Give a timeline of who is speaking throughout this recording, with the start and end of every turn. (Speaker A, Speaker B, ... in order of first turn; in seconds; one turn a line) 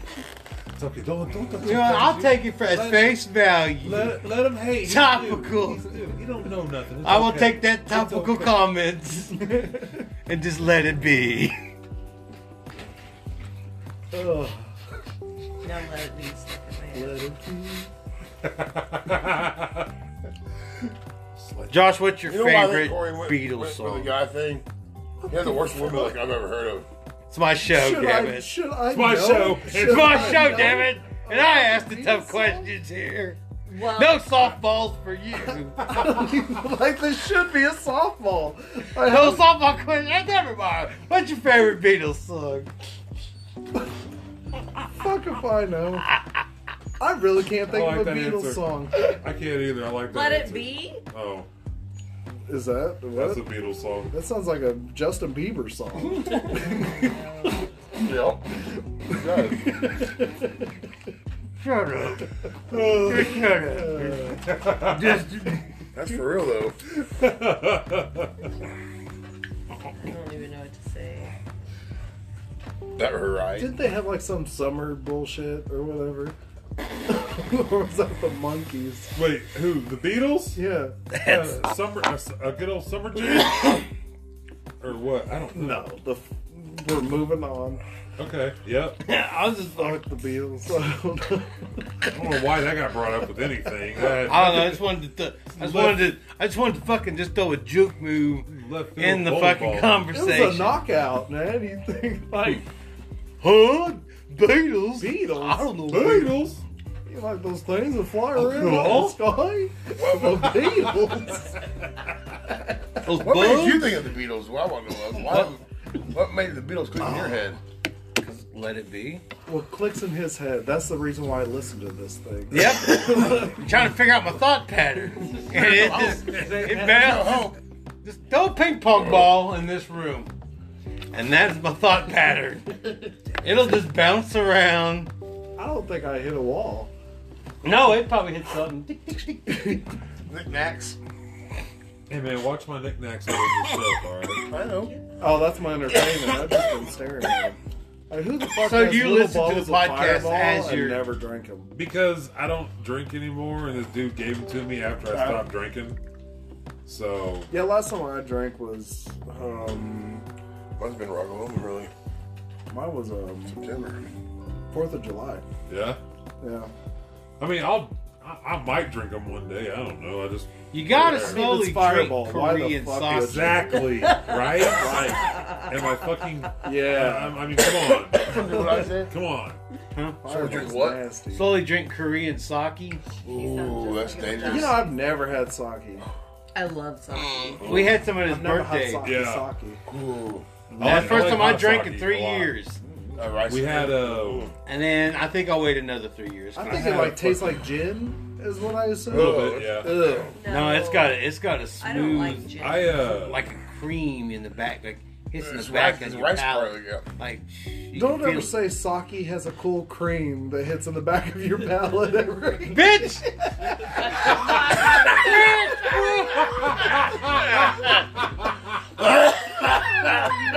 Speaker A: 0.8-3.2
Speaker B: 1.6-4.2
Speaker A: 3.8-8.6
Speaker B: 4.8-5.9
Speaker B: 7.0-9.4
Speaker C: 9.3-10.1
Speaker B: 10.2-11.6
Speaker C: 14.1-14.7
Speaker D: 15.6-17.2
Speaker C: 16.9-17.9
Speaker A: 18.4-19.9
Speaker A: 21.4-21.8
Speaker B: 21.7-24.1
Speaker E: 22.2-24.6
Speaker C: 25.2-26.2
Speaker E: 25.3-26.9
Speaker B: 27.3-28.5
Speaker C: 27.6-32.7
Speaker A: 28.9-30.7
Speaker B: 29.8-36.0
Speaker D: 33.7-34.3
Speaker C: 35.8-39.5
Speaker B: 39.0-42.7
Speaker C: 44.9-46.0
Speaker B: 46.0-46.4
Speaker C: 47.0-49.1
Speaker A: 47.6-51.5
Speaker D: 50.1-51.0
Speaker C: 52.5-53.5
Speaker A: 53.1-54.1
Speaker C: 54.1-57.1
Speaker D: 56.7-57.6
Speaker E: 58.0-58.5
Speaker E: 59.1-59.8
Speaker C: 59.6-60.7
Speaker B: 61.6-62.3
Speaker A: 62.7-63.4
Speaker B: 63.0-65.7
Speaker C: 63.6-64.5
Speaker A: 64.4-65.2
Speaker E: 65.9-66.8
Speaker A: 66.9-68.5
Speaker D: 70.0-71.3
Speaker E: 72.9-73.7
Speaker C: 73.5-76.3
Speaker C: 77.0-79.1
Speaker A: 79.1-80.6
Speaker C: 80.5-81.0
Speaker B: 81.1-81.6
Speaker A: 81.2-83.8
Speaker A: 84.8-85.9
Speaker C: 85.5-87.8
Speaker A: 88.2-89.0
Speaker B: 89.0-90.0
Speaker C: 89.7-92.0
Speaker A: 92.0-94.9
Speaker B: 94.2-100.8
Speaker A: 95.6-96.2
Speaker A: 98.5-100.0
Speaker C: 100.1-102.6
Speaker B: 103.4-106.3
Speaker C: 105.0-105.8
Speaker A: 105.9-106.6
Speaker C: 107.0-111.5
Speaker A: 108.3-109.2
Speaker E: 109.9-110.8
Speaker B: 113.0-114.0
Speaker E: 113.1-117.6
Speaker B: 115.2-115.5
Speaker B: 118.2-119.2
Speaker C: 119.5-123.8
Speaker B: 122.5-127.5
Speaker C: 125.5-127.4
Speaker A: 125.5-127.0
Speaker E: 126.8-127.5
Speaker B: 128.0-130.3
Speaker E: 128.9-129.3
Speaker B: 131.1-135.1
Speaker C: 135.6-136.9
Speaker B: 137.6-139.8
Speaker C: 139.5-139.8
Speaker E: 140.2-141.0
Speaker A: 142.1-144.4
Speaker E: 144.5-144.9
Speaker C: 145.2-147.6
Speaker C: 148.1-151.7
Speaker B: 148.6-151.1
Speaker A: 151.7-156.0
Speaker C: 155.1-155.5
Speaker A: 156.8-157.5
Speaker C: 157.5-160.2
Speaker E: 160.8-161.9
Speaker C: 162.7-163.6
Speaker E: 163.5-164.1
Speaker C: 164.7-165.4
Speaker A: 165.7-166.0
Speaker C: 166.4-166.7
Speaker A: 167.4-171.4
Speaker B: 170.7-173.6
Speaker C: 171.0-173.8
Speaker A: 173.1-178.5
Speaker D: 174.0-175.8
Speaker C: 174.6-175.3
Speaker C: 176.6-177.4
Speaker E: 178.1-179.1
Speaker A: 179.1-179.6
Speaker B: 179.9-180.2
Speaker C: 180.2-181.6
Speaker E: 180.2-181.0
Speaker B: 181.3-183.0
Speaker E: 183.2-184.8
Speaker D: 183.2-184.8
Speaker C: 184.4-186.0
Speaker D: 186.5-187.8
Speaker E: 187.4-188.0
Speaker B: 187.6-189.1
Speaker C: 188.2-189.8
Speaker A: 189.0-189.5
Speaker E: 189.9-190.5
Speaker A: 190.8-192.5
Speaker B: 190.8-192.8
Speaker C: 190.8-191.3
Speaker C: 192.8-193.2
Speaker E: 193.2-194.5
Speaker A: 193.5-194.5
Speaker B: 194.7-197.3
Speaker C: 196.5-200.4
Speaker A: 196.7-197.3
Speaker E: 199.1-200.4
Speaker A: 199.1-200.0
Speaker D: 200.3-203.3
Speaker B: 200.4-208.5
Speaker A: 201.9-203.4
Speaker E: 205.4-207.1
Speaker C: 207.9-213.9
Speaker B: 212.7-213.3
Speaker D: 214.5-214.9
Speaker B: 215.0-216.4
Speaker E: 219.0-220.2